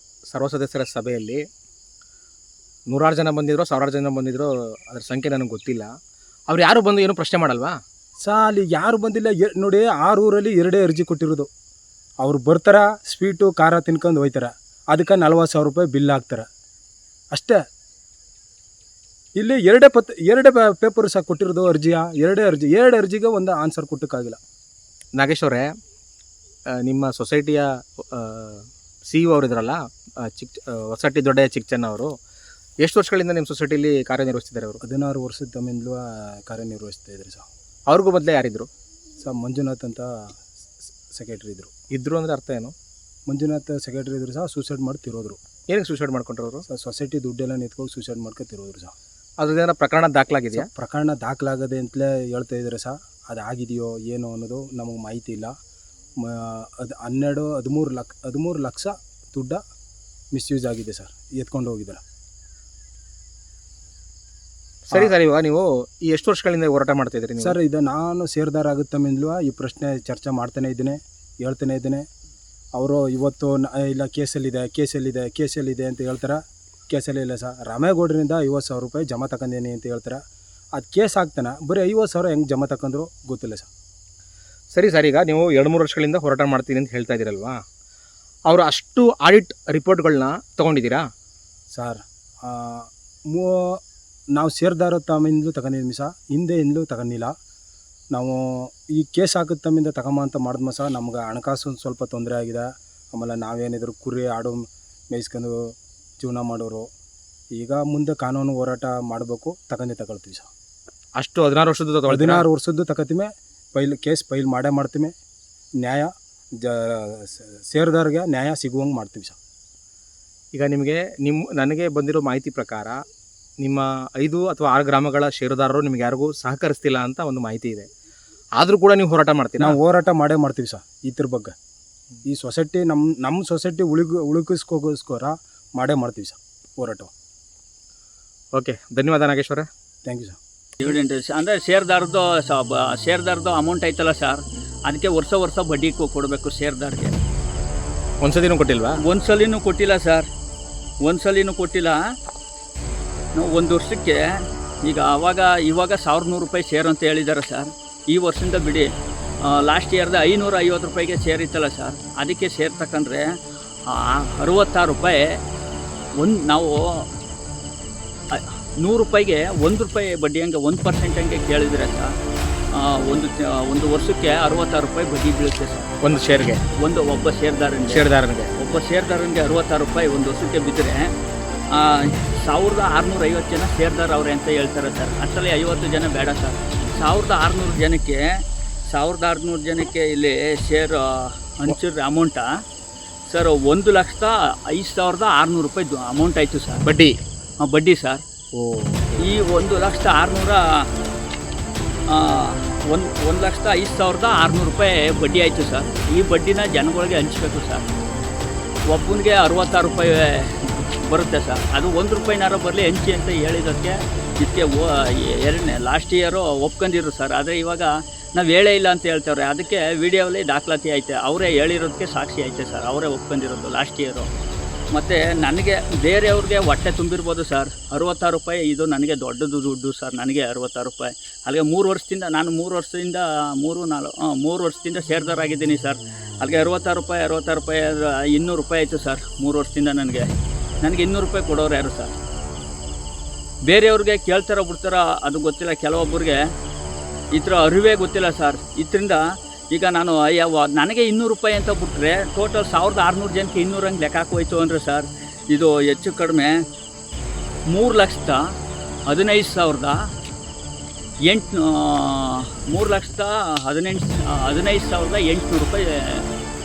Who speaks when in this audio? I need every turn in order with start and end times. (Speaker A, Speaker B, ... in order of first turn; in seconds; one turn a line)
Speaker A: 0.3-1.4
Speaker A: 2.9-5.9
Speaker A: 6.5-7.7
Speaker B: 8.2-11.5
Speaker B: 12.2-16.4
Speaker B: 17.3-17.6
Speaker B: 19.4-24.4
Speaker A: 25.1-25.7
Speaker A: 26.8-32.1
Speaker A: 32.8-34.8
Speaker B: 34.8-37.4
Speaker A: 37.9-38.7
Speaker B: 39.2-40.4
Speaker B: 41.1-41.7
Speaker A: 41.9-42.7
Speaker B: 43.3-45.4
Speaker A: 45.7-46.6
Speaker B: 46.7-48.9
Speaker A: 49.4-50.7
Speaker B: 50.5-55.5
Speaker B: 56.2-59.6
Speaker B: 60.3-62.0
Speaker A: 64.9-67.6
Speaker B: 67.4-72.0
Speaker B: 72.7-80.2
Speaker B: 80.7-83.7
Speaker A: 84.7-87.6
Speaker A: 88.5-91.0
Speaker B: 91.7-93.8
Speaker B: 94.3-97.3
Speaker B: 98.1-106.9
Speaker B: 107.5-110.5
Speaker A: 111.2-112.4
Speaker B: 112.1-115.1
Speaker B: 115.8-116.1
Speaker B: 116.6-119.4
Speaker A: 120.5-123.0
Speaker A: 123.6-127.9
Speaker A: 128.6-129.8
Speaker B: 129.6-131.5
Speaker B: 132.2-137.1
Speaker A: 138.5-139.7
Speaker B: 140.1-140.4
Speaker C: 140.8-147.1
Speaker A: 148.2-149.0
Speaker C: 149.0-150.2
Speaker C: 151.0-152.0
Speaker C: 153.3-158.9
Speaker C: 159.4-163.3
Speaker C: 163.9-165.4
Speaker C: 166.2-167.1
Speaker C: 168.3-172.1
Speaker C: 172.7-176.1
Speaker A: 176.0-176.6
Speaker C: 176.8-181.1
Speaker A: 177.8-178.5
Speaker C: 181.7-192.5
Speaker C: 193.3-196.8
Speaker A: 196.8-197.1
Speaker C: 197.6-198.2
Speaker A: 198.6-199.2
Speaker C: 199.2-200.6
Speaker C: 202.1-207.9
Speaker C: 208.9-224.3
Speaker C: 224.9-240.2
Speaker C: 240.8-242.2
Speaker C: 243.7-246.4
Speaker C: 247.3-256.6
Speaker C: 257.7-258.4
Speaker C: 259.1-260.0
Speaker C: 261.3-266.2